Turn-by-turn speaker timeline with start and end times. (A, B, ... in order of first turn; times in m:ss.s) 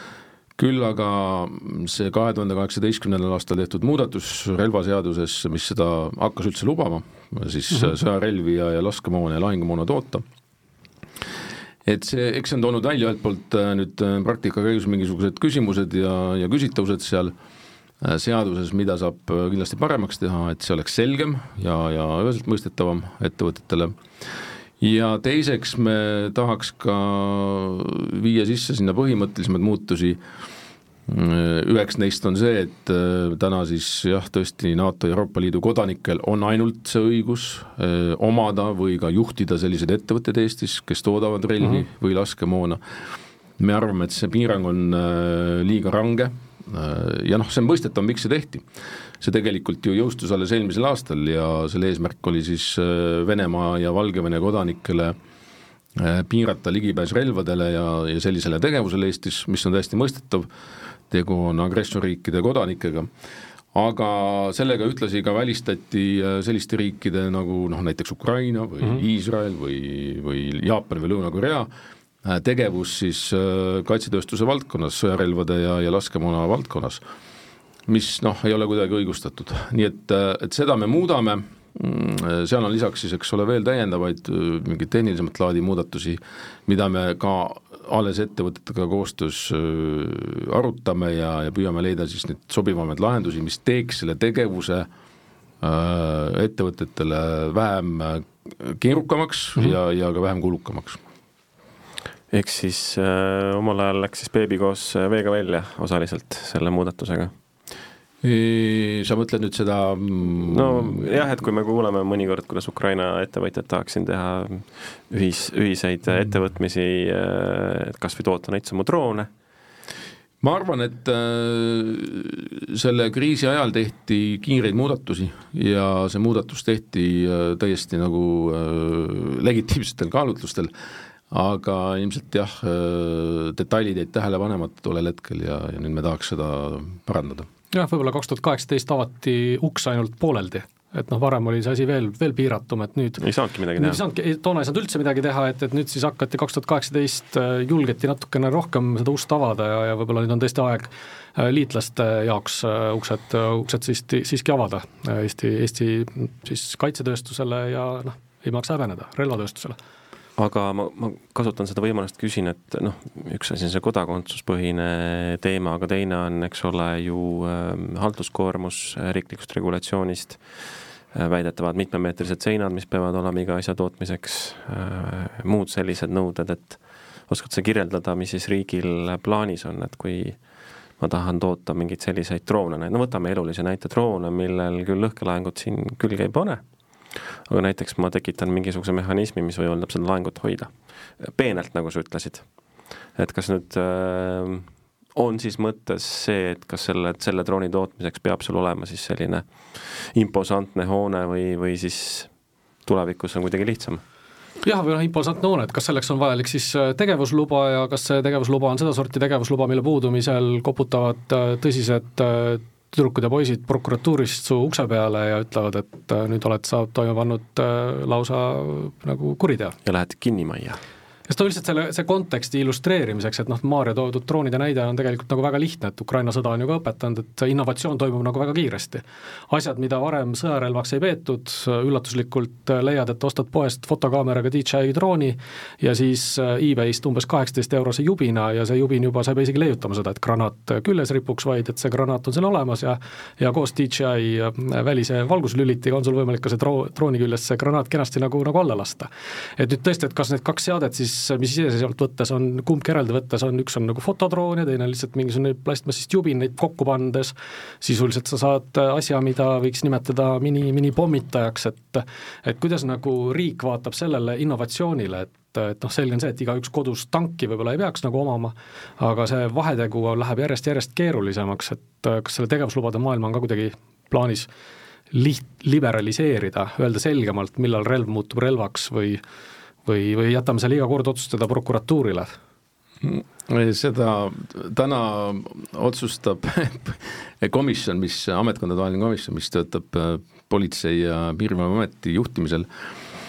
0:00.6-0:10.2 A
0:11.8-0:17.3 A
0:18.0-0:30.2 A
0:31.1-0:43.0 A
0:43.6-0:48.7 A
0:49.2-0:55.2 A
0:56.0-1:00.5 A
1:01.1-1:03.1 A
1:03.7-1:11.7 A
1:12.2-1:17.0 A
1:17.9-1:34.9 A
1:35.6-1:41.0 A
1:42.3-1:47.3 B
1:48.2-1:51.1 A
1:50.5-1:59.3 B
2:00.4-2:10.7 A
2:11.3-2:17.5 A
2:17.7-2:23.2 C
2:23.2-2:24.0 B
2:23.8-2:39.8 C
2:40.4-3:22.3 B
3:22.8-3:24.0 B
3:24.6-3:39.8 C
3:39.8-3:40.8 B
3:41.3-4:34.5 C
4:35.1-4:39.2 C
4:39.9-4:42.3 C
4:43.0-4:52.7 A